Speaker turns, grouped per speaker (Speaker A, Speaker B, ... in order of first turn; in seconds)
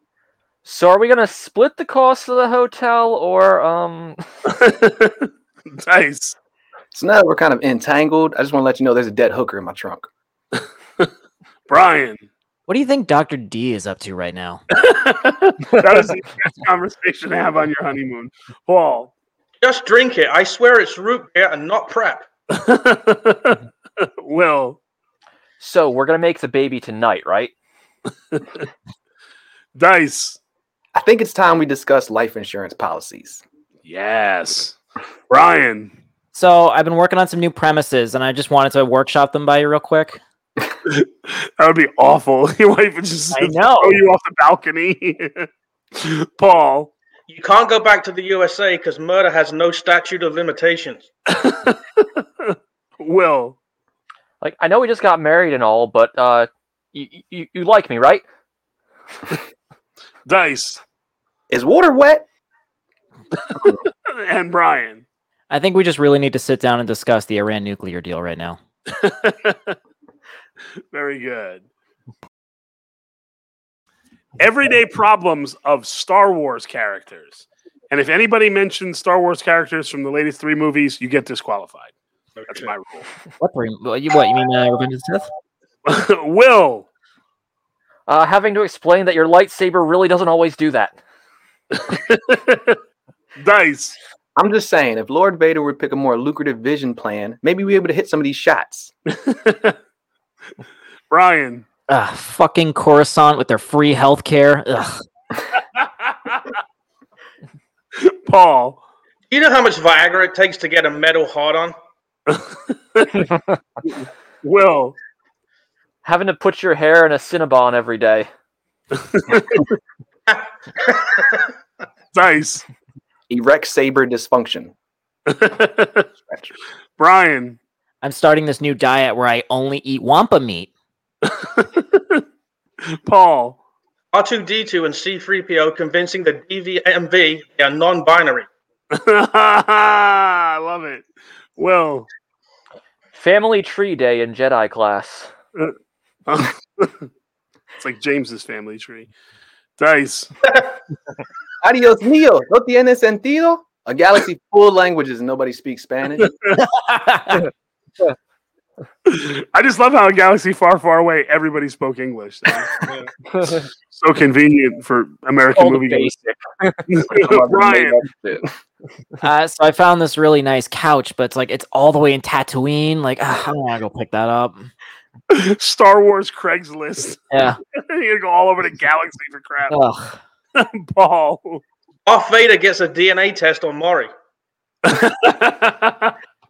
Speaker A: 0.6-4.2, 25.6-27.5, 54.4-58.2, 88.1-91.0, 116.0-118.3, 143.1-145.3, 165.6-166.8
Speaker B: 4.5-6.4, 11.7-12.3, 14.8-19.1, 22.5-23.6, 24.2-24.8, 28.3-28.6, 29.8-30.4, 33.8-34.8, 35.3-35.9, 40.9-46.9, 51.3-53.6, 60.3-60.8, 63.5-65.0, 68.9-69.8, 70.9-71.6, 74.4-81.9, 82.5-83.1, 85.9-86.9, 91.7-92.8, 93.4-94.0, 99.2-99.8, 101.1-101.6, 105.8-106.5, 108.0-108.8, 112.3-113.3, 113.8-115.0, 119.1-119.7, 122.1-122.7, 125.3-126.1, 127.0-127.6, 131.3-132.2, 133.0-133.6, 138.9-142.1, 146.3-147.1, 147.8-149.1, 149.8-150.3, 156.2-156.6, 159.1-162.8, 163.9-166.1, 166.9-168.0, 175.3-179.8, 180.6-181.6, 184.9-186.1
Speaker C: 6.9-10.1, 30.9-33.4, 61.5-62.3, 94.4-98.9, 123.3-124.7, 151.6-156.3, 167.1-168.5
Speaker D: 12.7-14.6, 36.3-40.2, 43.3-44.0, 65.5-68.6, 83.4-85.3, 101.9-105.0, 128.0-130.7, 169.2-174.7, 177.3-177.6, 179.7-180.2
Speaker E: 19.6-22.2, 47.3-51.0, 82.4-82.7, 109.3-111.8, 120.3-121.5, 134.1-138.5, 162.8-163.1, 182.1-184.1